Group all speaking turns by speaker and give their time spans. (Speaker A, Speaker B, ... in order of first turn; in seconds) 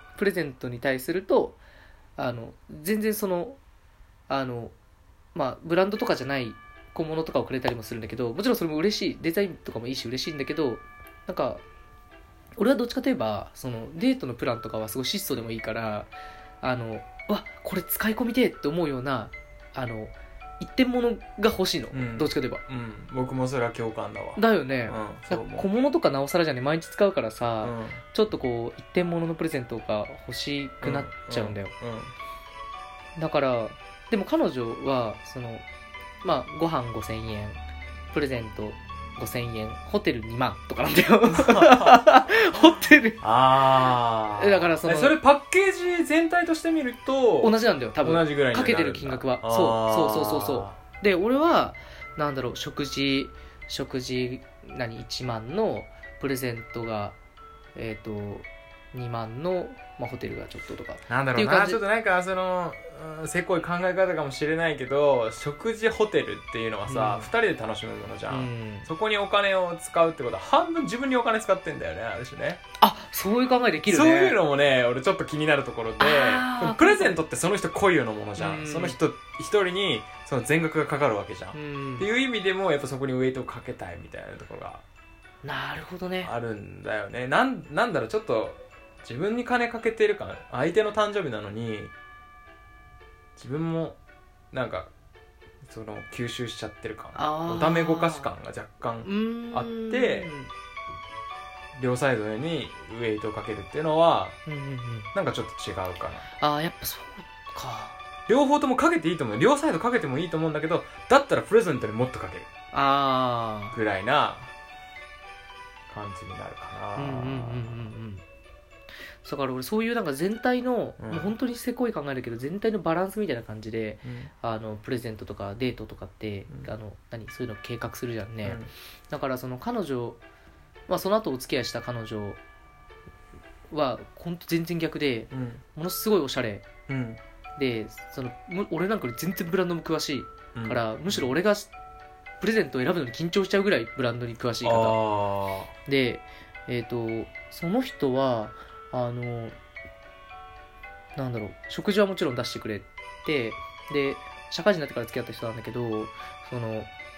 Speaker A: 0.2-1.6, 2.2-3.6, 4.3-4.7, 5.3-11.6, 12.6-16.1, 16.6-22.6, 24.4-31.7, 33.2-35.6, 36.2-37.6, 38.1-43.2, 44.4-45.2, 47.4-57.2, 57.8-61.8, 66.9-67.3, 68.3-68.9, 72.8-74.4, 76.0-77.2, 78.4-79.0, 81.5-82.1, 85.4-86.3, 97.2-98.3, 99.0-100.5, 104.5-105.1, 106.4-108.0, 112.7-113.8, 117.0-118.2, 119.2-130.2, 130.9-132.4, 133.7-136.7, 137.6-141.7, 142.4-145.0, 145.9-149.6, 151.2-156.9
Speaker B: 21.9-25.7, 27.6-28.0, 30.8-32.1, 41.3-42.6, 43.2-50.8, 61.1-72.6, 73.9-84.8, 86.2-91.9, 93.4-94.0, 94.5-94.9, 95.7-100.3, 101.8-104.4, 105.1-106.3, 108.3-112.5, 113.7-114.5, 115.9-117.9, 121.0-121.3, 124.0-124.3, 128.4-128.7, 135.3-135.6, 136.9-137.2, 140.6-141.3, 144.6-145.7